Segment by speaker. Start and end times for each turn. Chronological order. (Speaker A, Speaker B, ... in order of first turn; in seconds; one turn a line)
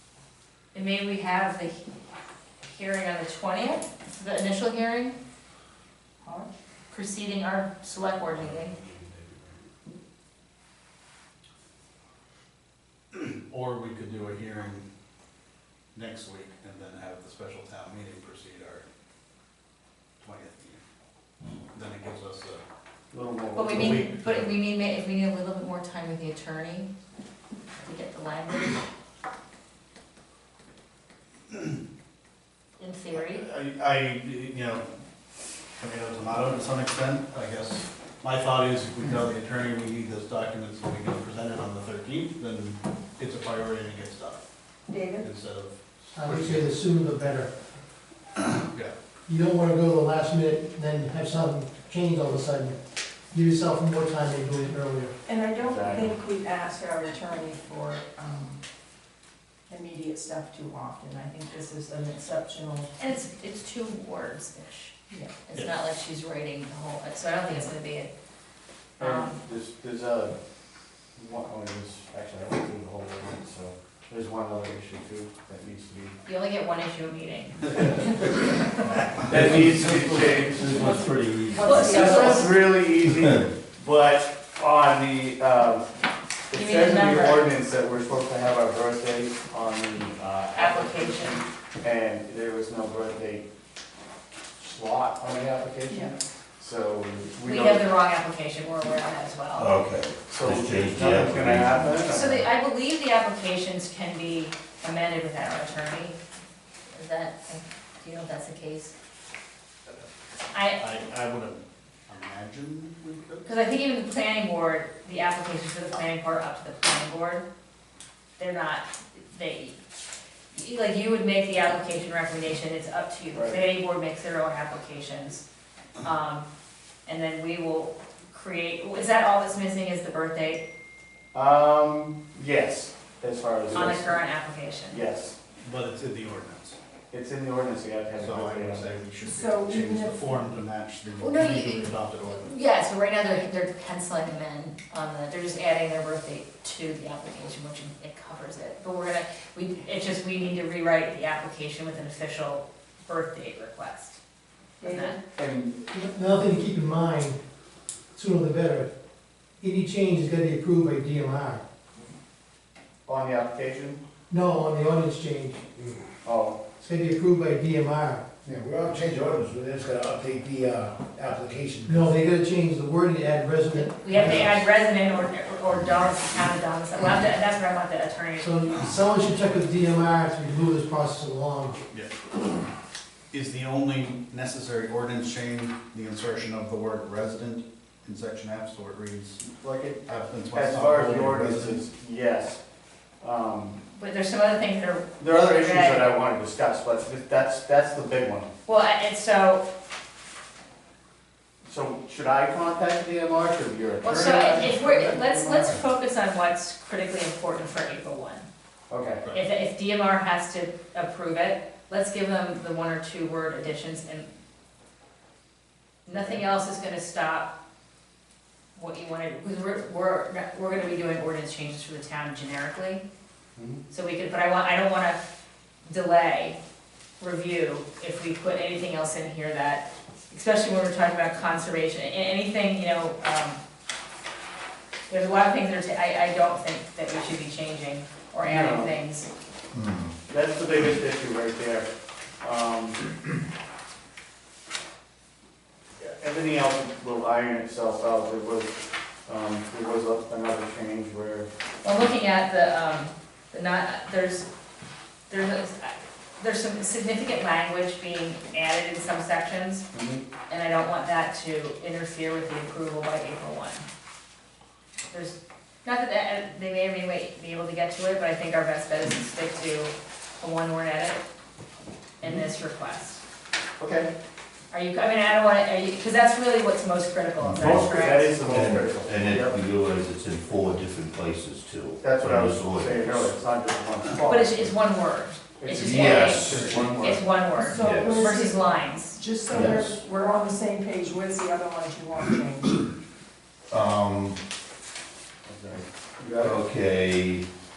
Speaker A: 0.7-1.8
Speaker A: 2.6-5.2
Speaker B: 6.2-6.5
Speaker A: 6.9-8.7
Speaker C: 13.1-14.8
Speaker C: 15.9-18.9
Speaker C: 20.2-20.8
Speaker C: 21.7-22.6
Speaker D: 23.1-24.0
Speaker A: 23.6-26.9
Speaker C: 23.6-24.5
Speaker A: 27.8-28.8
Speaker A: 32.8-33.5
Speaker C: 33.1-34.9
Speaker C: 35.8-44.5
Speaker B: 44.9-45.3
Speaker C: 45.2-46.6
Speaker E: 46.1-47.5
Speaker C: 48.4-48.9
Speaker E: 49.3-52.8
Speaker E: 53.3-55.1
Speaker B: 55.3-58.6
Speaker D: 55.6-56.1
Speaker B: 59.7-62.9
Speaker A: 63.0-65.0
Speaker B: 65.1-65.4
Speaker A: 65.5-68.1
Speaker A: 69.0-69.4
Speaker D: 69.0-70.4
Speaker D: 71.2-76.2
Speaker A: 76.2-78.8
Speaker F: 79.2-82.0
Speaker D: 79.3-80.8
Speaker A: 80.8-81.0
Speaker B: 81.5-82.5
Speaker A: 81.6-82.6
Speaker D: 81.7-85.8
Speaker D: 86.5-93.5
Speaker A: 86.5-87.5
Speaker A: 90.5-91.4
Speaker D: 94.6-97.8
Speaker B: 95.9-96.1
Speaker A: 97.4-99.7
Speaker F: 99.5-101.9
Speaker D: 100.3-102.5
Speaker A: 102.1-106.2
Speaker A: 106.9-108.9
Speaker A: 110.5-110.8
Speaker C: 110.8-113.5
Speaker A: 113.5-117.5
Speaker A: 118.4-119.8
Speaker A: 120.5-125.4
Speaker D: 123.3-123.7
Speaker A: 126.0-126.5
Speaker A: 127.1-130.6
Speaker D: 131.3-134.2
Speaker A: 133.7-135.0
Speaker D: 134.9-135.4
Speaker C: 135.6-136.8
Speaker D: 137.1-138.9
Speaker C: 138.2-142.5
Speaker B: 139.2-140.4
Speaker A: 141.2-154.2
Speaker B: 154.8-155.2
Speaker A: 154.8-155.2
Speaker D: 155.3-155.8
Speaker E: 155.9-157.4
Speaker E: 158.1-158.9
Speaker E: 159.6-161.6
Speaker D: 163.1-164.0
Speaker E: 164.3-165.7
Speaker D: 166.2-166.6
Speaker E: 166.8-168.2
Speaker G: 168.4-172.1
Speaker E: 171.9-174.6
Speaker A: 173.8-178.5
Speaker E: 178.4-181.8
Speaker C: 183.3-189.6
Speaker D: 189.6-192.6
Speaker C: 190.1-191.8
Speaker D: 193.2-193.8
Speaker A: 193.9-196.1
Speaker D: 195.2-198.5
Speaker A: 198.7-199.6
Speaker D: 201.7-205.8
Speaker A: 204.0-208.5
Speaker D: 208.9-209.2
Speaker A: 209.3-214.3
Speaker A: 216.1-217.5
Speaker D: 216.1-216.4
Speaker A: 218.8-223.0
Speaker D: 223.6-223.8
Speaker A: 223.9-225.3
Speaker A: 225.8-226.6
Speaker A: 227.2-233.6
Speaker A: 235.1-239.3
Speaker D: 238.4-238.9
Speaker F: 239.7-240.1
Speaker D: 240.3-241.9
Speaker D: 242.4-243.1
Speaker D: 246.0-251.5
Speaker A: 251.8-254.5
Speaker A: 255.3-259.9
Speaker D: 259.9-260.2
Speaker A: 260.5-263.9
Speaker A: 265.1-271.2
Speaker A: 272.2-273.2
Speaker D: 273.8-274.1
Speaker A: 274.7-278.4
Speaker F: 277.4-277.9
Speaker D: 277.6-279.6
Speaker F: 278.4-283.3
Speaker D: 282.0-284.7
Speaker A: 284.3-289.2
Speaker D: 285.6-287.2
Speaker F: 285.8-286.9
Speaker B: 287.6-292.9
Speaker F: 287.8-288.3
Speaker F: 289.5-290.0
Speaker F: 293.7-294.4
Speaker D: 295.4-296.6
Speaker F: 296.4-297.5